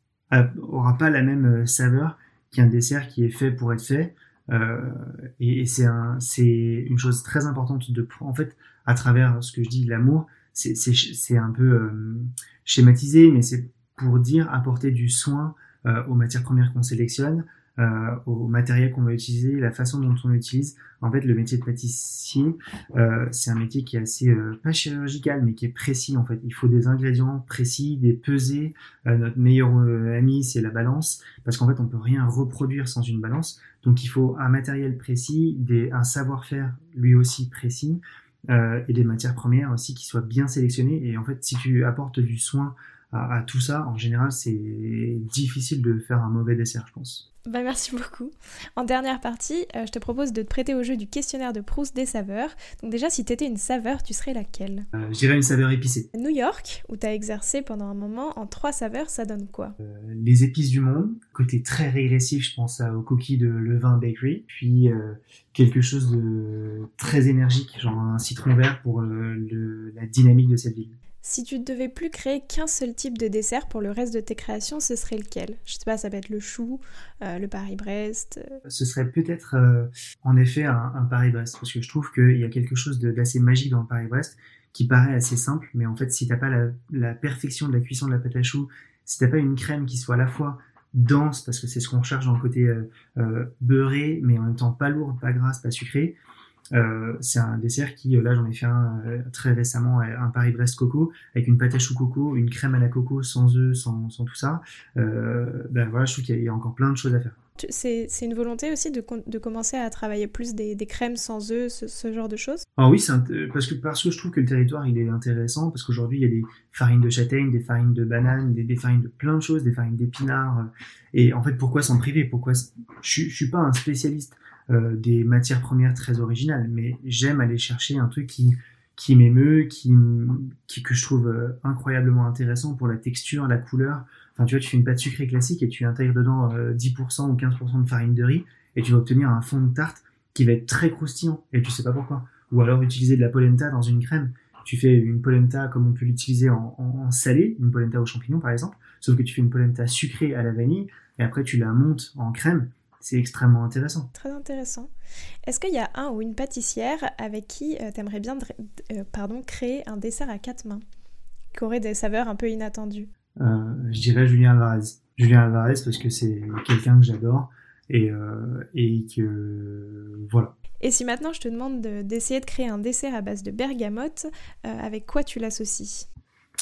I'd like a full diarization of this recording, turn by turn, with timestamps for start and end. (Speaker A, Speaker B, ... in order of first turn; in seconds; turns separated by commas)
Speaker A: 0.3-47.2, Speaker B: 47.5-54.9, Speaker A: 54.9-56.1, Speaker B: 56.1-59.7, Speaker A: 59.8-71.0, Speaker B: 71.2-78.6, Speaker A: 78.7-96.2, Speaker A: 96.7-107.4, Speaker B: 107.6-112.6, Speaker A: 112.8-154.1, Speaker B: 154.1-154.9, Speaker B: 155.4-160.8, Speaker B: 161.5-163.1, Speaker A: 163.4-170.5, Speaker B: 170.8-176.1